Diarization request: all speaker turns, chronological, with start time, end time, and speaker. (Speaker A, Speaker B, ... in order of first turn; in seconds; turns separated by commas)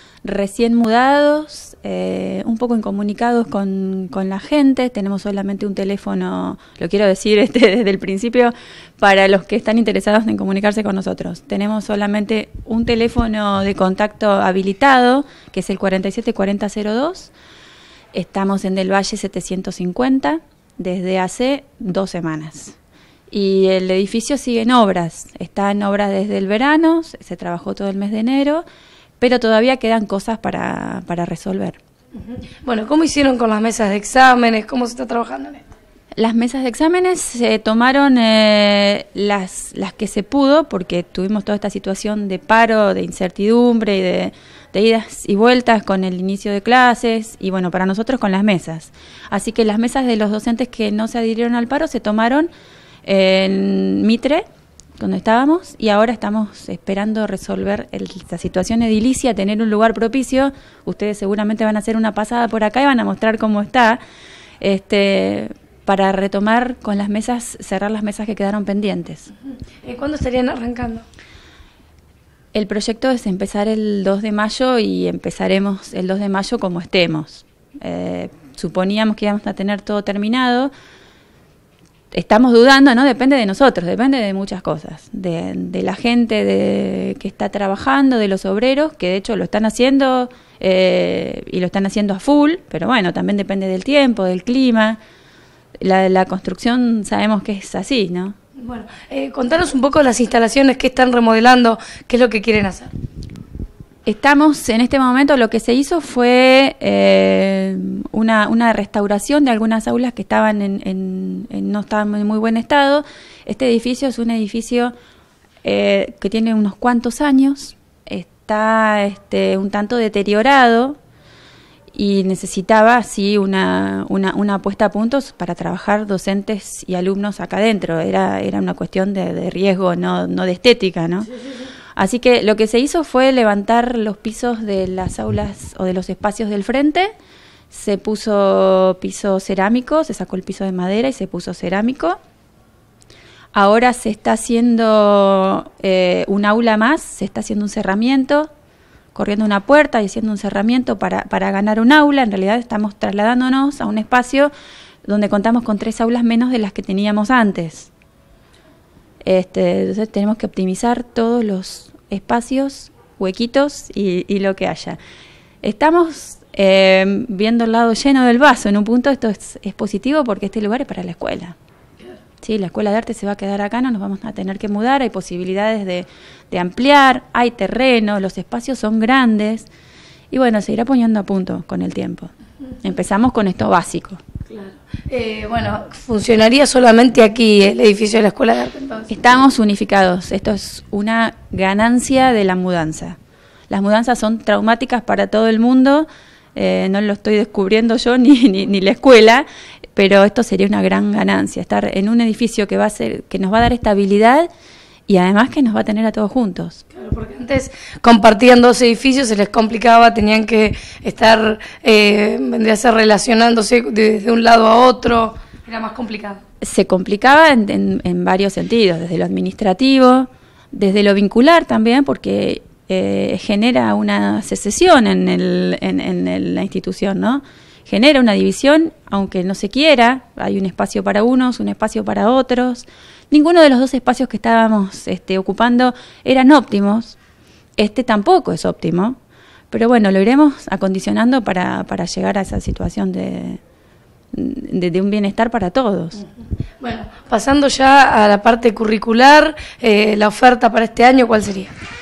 Speaker A: 0.2-17.3, Speaker A: 18.1-22.8, Speaker A: 23.3-28.6, Speaker A: 29.2-31.8, Speaker B: 32.2-35.6, Speaker A: 36.2-52.5, Speaker A: 53.0-54.4, Speaker A: 55.0-64.0, Speaker A: 64.6-69.3, Speaker B: 69.8-71.0, Speaker A: 72.5-80.7, Speaker A: 82.1-95.0, Speaker A: 95.8-98.4, Speaker B: 98.6-102.9, Speaker A: 104.1-114.9, Speaker A: 115.6-121.0, Speaker A: 121.9-131.3, Speaker A: 132.0-137.1, Speaker A: 137.7-142.2, Speaker A: 143.6-148.5, Speaker A: 149.2-154.5, Speaker A: 155.0-157.9, Speaker A: 159.2-165.0, Speaker A: 165.6-171.6, Speaker A: 172.4-179.7, Speaker A: 180.3-182.3, Speaker A: 182.8-184.2, Speaker B: 184.5-189.2, Speaker A: 189.1-193.2, Speaker A: 193.7-204.5, Speaker A: 205.1-206.8, Speaker B: 206.9-216.4, Speaker A: 216.6-237.2, Speaker A: 237.8-239.2, Speaker A: 239.7-243.6, Speaker A: 244.3-246.2, Speaker B: 246.8-251.7